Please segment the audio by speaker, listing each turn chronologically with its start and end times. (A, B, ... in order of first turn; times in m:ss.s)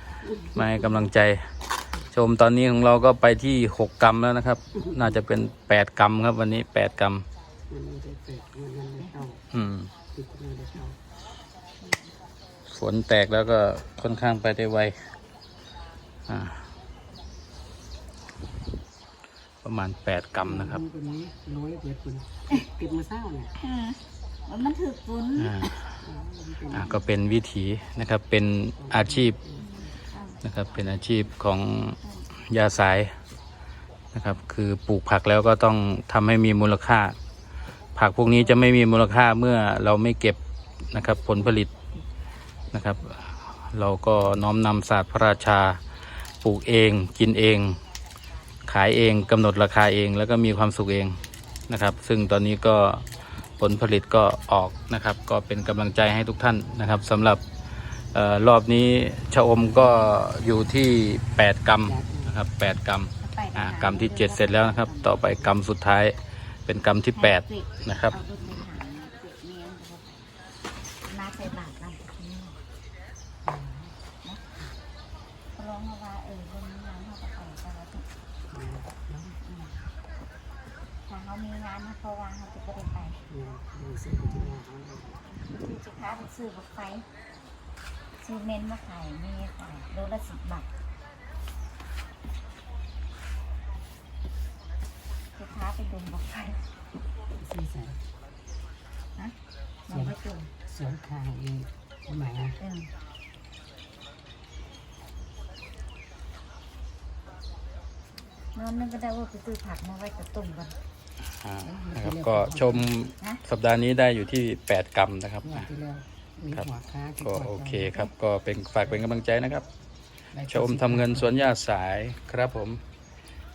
0:00.4-0:01.5 A
0:02.1-0:07.2 A
0:07.7-0:09.4 B
0:09.5-0:09.9 A
0:10.1-0:11.0 B
0:11.8-0:12.1 C
0:12.7-0:15.0 A
0:16.3-0:16.6 A
0:19.6-0:20.8 A
0:20.4-0:23.5 B
0:23.6-0:25.8 C
0:25.4-0:25.7 A
0:26.0-0:27.0 B
0:26.7-0:29.4 A
0:28.8-0:30.0 B
0:29.6-0:30.4 C
0:30.4-0:33.1 A
0:32.0-0:32.3 C
0:34.1-0:37.2 A
0:38.0-0:40.4 A
0:40.9-0:41.7 A
0:42.7-0:45.8 A
0:46.4-0:47.8 A
0:48.6-0:53.1 A
0:53.6-0:57.4 A
0:58.1-1:08.2 A
1:01.8-1:02.4 B
1:03.2-1:05.5 C
1:07.1-1:10.3 C
1:11.0-1:12.6 C
1:13.4-1:13.9 B
1:15.5-1:18.1 C
1:18.5-1:19.5 B
1:21.1-1:23.2 C
1:23.3-1:25.2 B
1:25.5-1:27.0 C
1:28.2-1:30.7 C
1:35.4-1:36.7 C
1:37.4-1:38.0 B
1:39.9-1:40.5 C
1:39.9-1:42.6 B
1:42.6-1:42.9 C
1:48.5-1:50.8 C
1:51.4-1:55.7 A
1:51.6-1:52.9 B
1:55.4-1:58.1 B
1:57.2-1:59.6 A
2:00.3-2:01.5 B
2:00.5-2:02.8 A